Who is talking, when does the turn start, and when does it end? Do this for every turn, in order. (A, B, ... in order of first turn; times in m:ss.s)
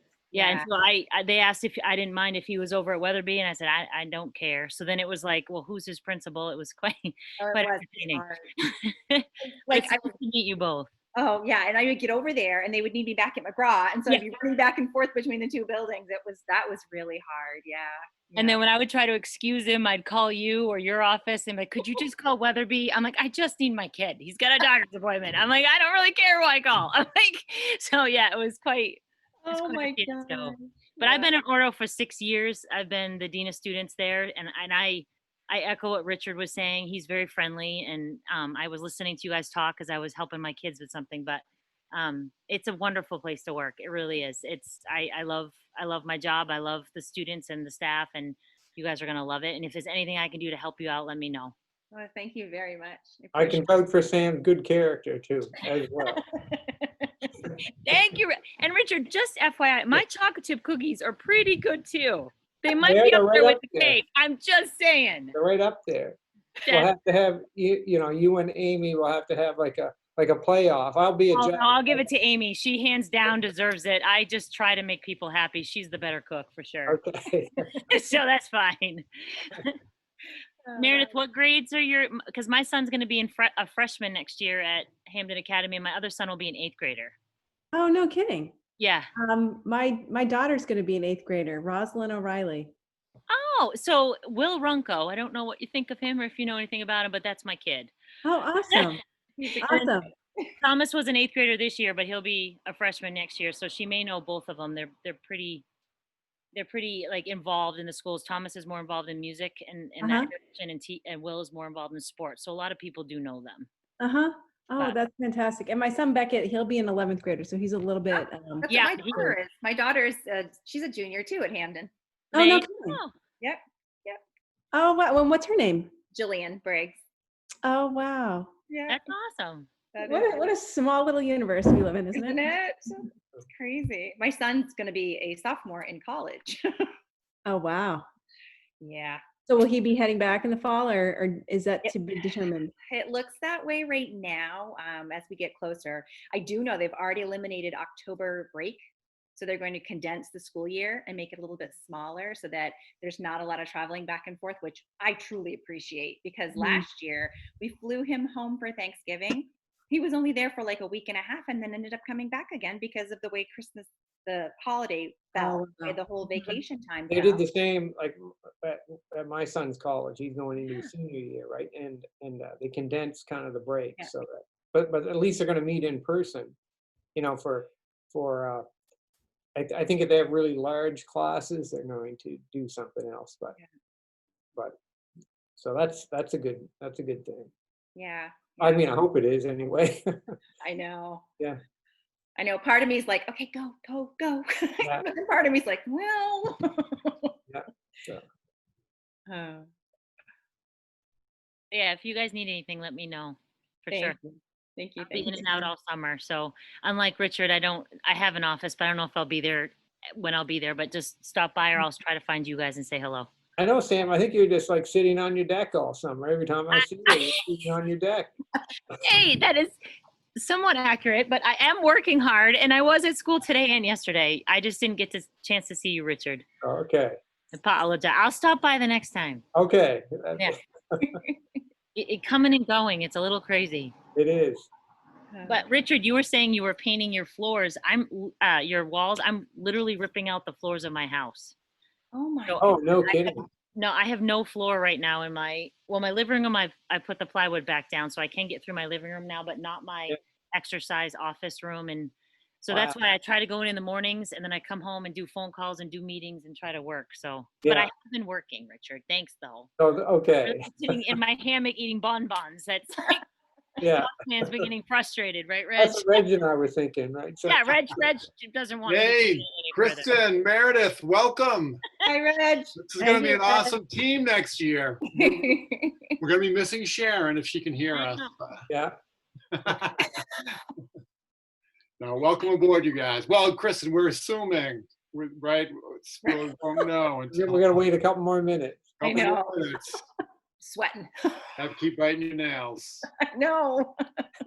0:00.3-0:00.7 A
0:00.3-0:10.9 B
0:07.4-0:08.5 A
0:09.7-0:10.2 A
0:11.2-0:18.6 A
0:18.4-0:51.6 B
0:29.4-0:31.3 A
0:51.9-0:53.8 A
0:53.3-0:56.2 C
0:56.0-0:57.4 A
0:57.7-1:05.4 B
1:02.8-1:04.0 C
1:05.3-1:12.0 C
1:06.6-1:06.9 B
1:11.3-1:17.0 B
1:16.9-1:17.8 C
1:17.9-1:19.8 B
1:20.6-1:21.2 A
1:20.8-1:27.2 B
1:27.7-1:28.5 D
1:28.8-1:29.1 B
1:29.2-1:32.7 D
1:33.3-1:37.9 B
1:38.2-1:39.0 D
1:39.4-1:39.8 A
1:39.6-1:40.1 D
1:40.6-1:45.6 B
1:46.5-1:53.7 B
1:50.0-1:50.3 D
1:54.0-1:58.7 D
1:58.1-2:01.9 A
1:58.7-1:59.4 B
2:02.3-2:03.0 D
2:02.3-2:03.1 B
2:03.4-2:04.2 A
2:04.7-2:05.9 D
2:06.1-2:07.0 A
2:07.6-2:08.5 D
2:08.7-2:09.1 A
2:08.9-2:09.7 B
2:09.9-2:10.5 A
2:10.0-2:12.4 D
2:12.1-2:16.9 A
2:17.5-2:18.1 D
2:18.8-2:19.2 A
2:19.5-2:22.7 D
2:21.8-2:22.1 A
2:22.9-2:28.8 A
2:29.4-2:47.4 A
2:36.6-2:36.9 D
2:45.4-2:46.5 D
2:47.1-2:56.6 C
2:50.6-2:50.9 A
2:57.2-2:58.6 C
2:59.6-3:03.6 C
3:05.6-3:07.5 C
3:08.0-3:08.9 A
3:08.6-3:10.1 C
3:10.6-3:11.2 A
3:12.4-3:17.3 A
3:17.5-3:18.2 C
3:19.3-3:19.7 A
3:21.7-3:24.2 B
3:23.9-3:25.7 A
3:25.0-3:33.3 B
3:33.6-3:38.3 C
3:36.7-3:37.4 B
3:39.0-3:39.8 B
3:40.4-3:46.4 B
3:46.6-3:47.2 C
3:47.5-3:49.4 B
3:49.5-3:51.2 C
3:52.0-3:53.9 B
3:54.2-3:54.7 C
3:55.3-3:55.6 A
3:55.5-4:01.6 B
4:02.1-4:03.2 A
4:02.5-4:03.2 B
4:02.6-4:03.4 C
4:03.8-4:19.7 B
4:12.7-4:13.0 C
4:17.6-4:17.9 C
4:19.8-4:21.0 C
4:20.4-4:23.2 B
4:23.8-4:24.1 C
4:24.0-4:26.1 B
4:25.8-4:27.8 C
4:27.5-4:30.2 B
4:28.9-4:31.8 E
4:32.0-4:33.6 A
4:32.8-4:35.6 E
4:35.2-4:36.1 A
4:36.2-4:38.7 E
4:37.9-4:38.3 B
4:38.7-4:39.0 C
4:39.6-4:40.0 E
4:42.0-4:47.7 E
4:47.3-4:49.4 C
4:49.0-4:50.0 E
4:49.0-4:49.7 A
4:50.6-4:51.5 A
4:51.6-4:53.0 E
4:53.2-4:54.0 A